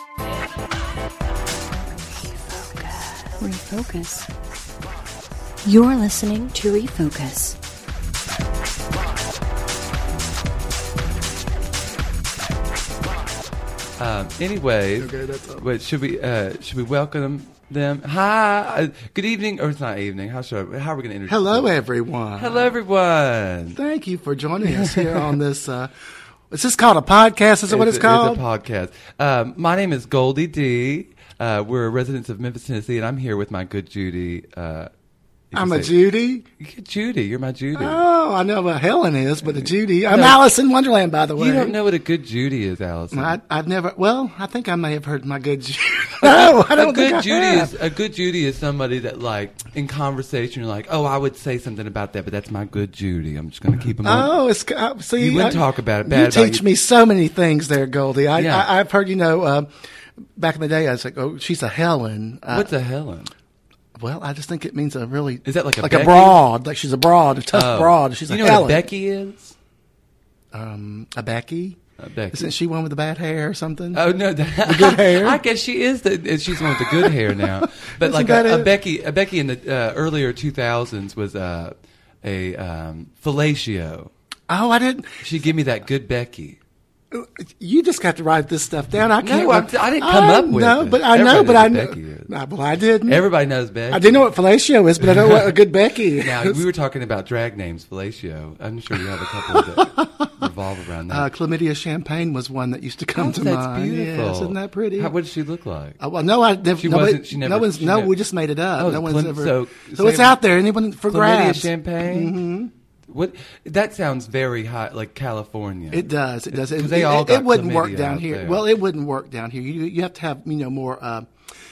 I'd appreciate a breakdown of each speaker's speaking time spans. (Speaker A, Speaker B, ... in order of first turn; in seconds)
Speaker A: 2.0-4.3, 5.7-7.6
Speaker B: 14.0-21.8, 22.4-23.8, 24.6-25.3, 27.7-34.9, 35.5-36.0, 36.6-38.0, 39.5-40.4, 41.4-43.4, 46.2-54.4, 55.2-56.6, 58.3-58.7, 62.5-63.3, 65.5-66.4, 67.5-69.5, 72.0-72.5, 73.9-84.1, 85.2-86.6, 89.2-92.3, 93.1-94.3, 95.0-95.6, 96.1-101.3, 103.2-106.0, 106.8-108.1, 108.8-110.4, 111.1-112.4, 113.1-118.7
Speaker C: 15.0-15.6, 21.3-22.8, 23.7-25.9, 26.5-28.4, 35.5-36.5, 37.8-41.8, 43.1-47.7, 54.0-59.7, 60.4-62.7, 64.0-68.8, 70.5-71.8, 72.3-74.0, 74.6-75.4, 76.5-78.7, 84.5-85.2, 87.1-93.3, 93.9-96.6, 99.5-100.3, 101.1-105.1, 106.0-112.7, 115.9-121.3